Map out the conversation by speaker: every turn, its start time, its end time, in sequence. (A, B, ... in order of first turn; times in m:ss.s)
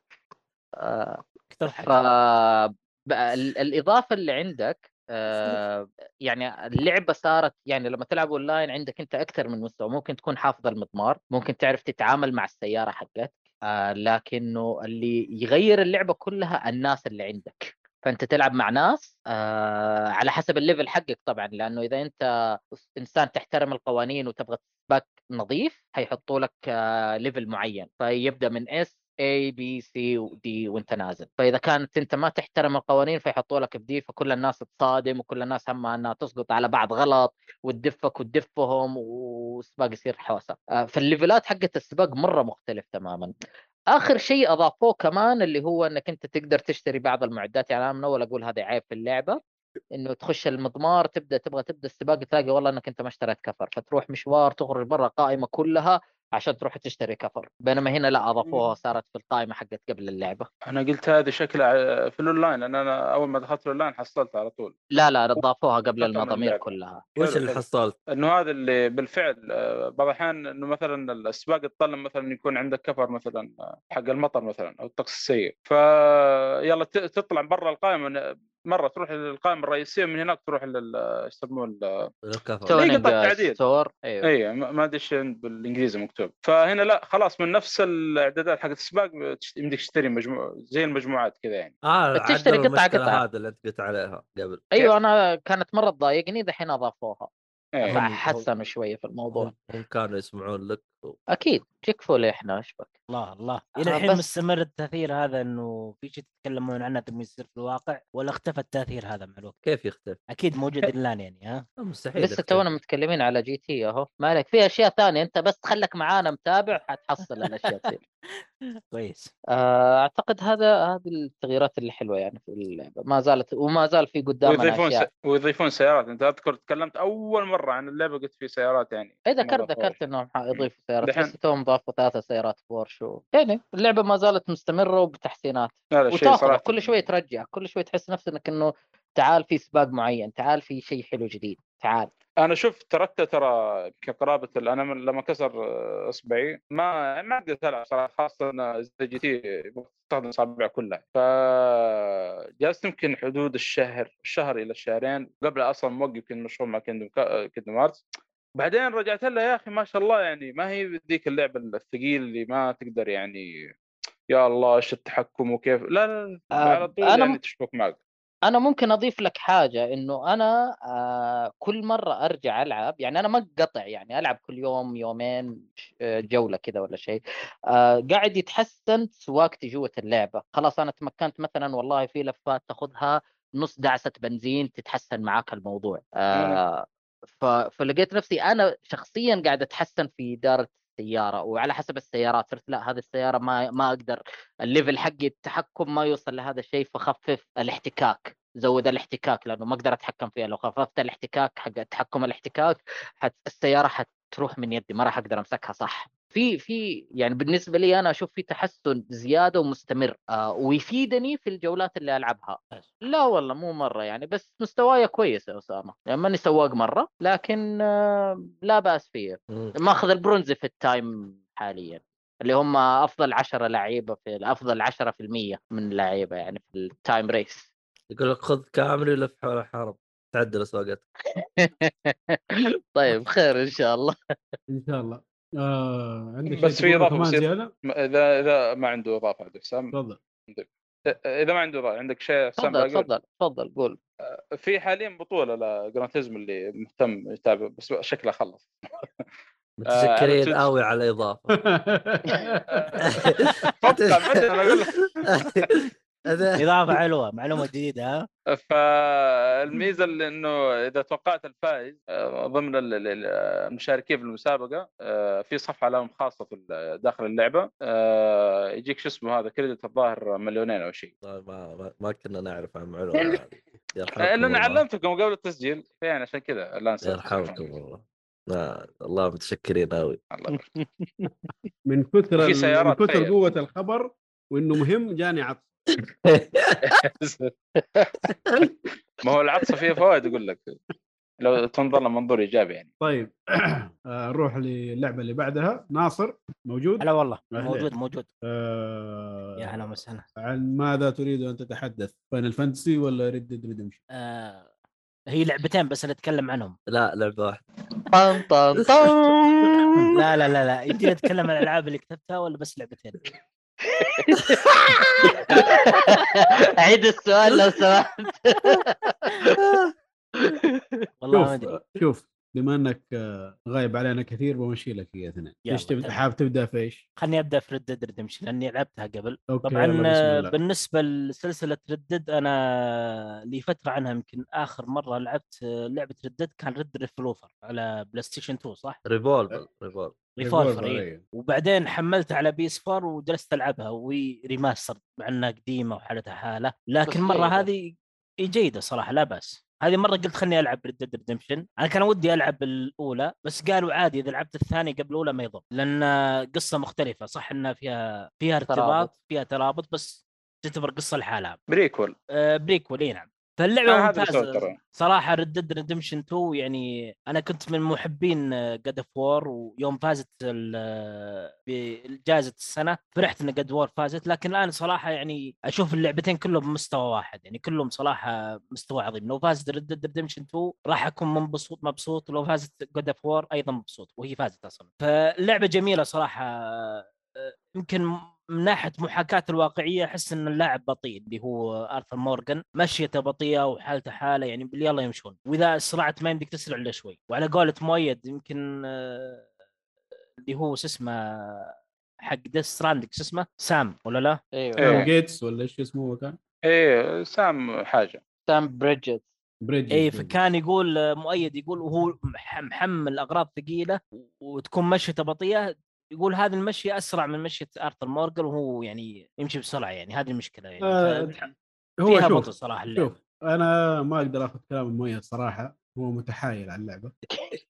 0:00.8-0:43.3 A
0:01.5-0:01.9 B
0:43.9-0:49.4 A
0:49.9-1:00.5 A
1:00.6-1:04.7 C
1:04.9-1:07.0 A
1:06.0-1:06.6 C
1:07.2-1:08.0 D
1:07.2-1:22.1 C
1:22.2-1:22.8 D
1:22.7-1:24.3 A
1:22.7-1:23.6 C
1:24.2-1:31.7 C
1:31.8-1:34.7 D
1:32.2-1:33.2 A
1:34.7-1:37.3 A
1:37.8-1:39.5 A
1:37.9-1:38.4 D
1:37.9-1:38.2 B
1:39.3-1:41.2 D
1:41.3-1:42.9 A
1:43.1-1:49.6 B
1:43.8-1:44.2 A
1:49.6-1:50.2 D
1:50.3-1:51.6 B
1:51.8-1:52.6 D
1:52.2-1:58.0 A
1:58.9-1:59.3 B
1:59.5-2:05.0 A
2:04.4-2:10.0 C
2:09.2-2:22.1 A
2:10.5-2:11.3 C
2:16.0-2:17.0 C
2:22.4-2:38.0 C
2:38.6-2:43.4 C
2:44.3-2:48.0 C
2:46.6-2:47.4 A
2:48.4-3:47.7 A
3:06.3-3:06.6 C
3:39.5-3:39.7 D
3:48.1-3:51.0 D
3:51.4-3:54.5 A
3:54.7-3:57.7 E
3:56.5-3:59.9 C
3:59.9-4:00.2 E
4:00.5-4:03.1 C
4:02.6-4:04.0 A
4:04.6-4:09.1 C
4:09.8-4:11.5 D
4:09.9-4:10.7 C
4:11.5-4:12.9 E
4:12.7-4:13.2 C
4:13.0-4:14.7 D
4:13.8-4:15.2 C
4:15.3-4:16.6 D
4:16.6-4:18.3 B
4:18.5-4:31.1 C
4:31.2-4:34.8 D
4:34.2-4:37.7 C
4:37.0-4:40.2 D
4:40.3-4:40.7 C
4:41.8-4:45.7 E
4:42.4-4:43.3 C
4:46.2-4:46.9 D
4:46.8-4:47.5 C
4:49.2-4:50.7 C
4:51.4-4:52.9 C
4:53.0-4:57.9 E
4:57.0-4:58.3 B
4:58.4-4:59.8 E
4:59.6-5:00.2 B
5:00.4-5:04.0 E
5:04.1-5:04.7 B
5:05.3-5:06.7 B
5:06.9-5:07.6 D
5:08.1-5:10.0 A
5:10.1-5:13.2 B
5:13.9-5:14.6 A
5:15.3-5:19.5 A
5:20.4-5:20.8 A
5:21.2-5:21.8 B
5:21.3-5:27.0 E
5:25.7-5:26.2 B
5:27.2-5:39.0 B
5:29.5-5:30.5 E
5:39.0-5:40.2 D
5:40.4-5:47.9 B
5:40.4-5:41.2 E
5:47.1-5:47.7 A
5:48.4-6:01.6 B
5:58.7-5:59.1 A
6:01.7-6:02.1 C
6:02.3-6:39.5 B
6:03.9-6:04.8 C
6:40.4-6:44.4 B
6:44.6-6:45.0 A
6:44.8-6:45.1 C
6:44.8-6:46.4 E
6:46.6-6:48.2 C
6:48.5-6:49.2 A
6:49.6-6:50.3 E
6:49.9-7:01.5 B
7:00.8-7:01.4 E
7:02.0-7:07.1 E
7:02.0-7:03.2 B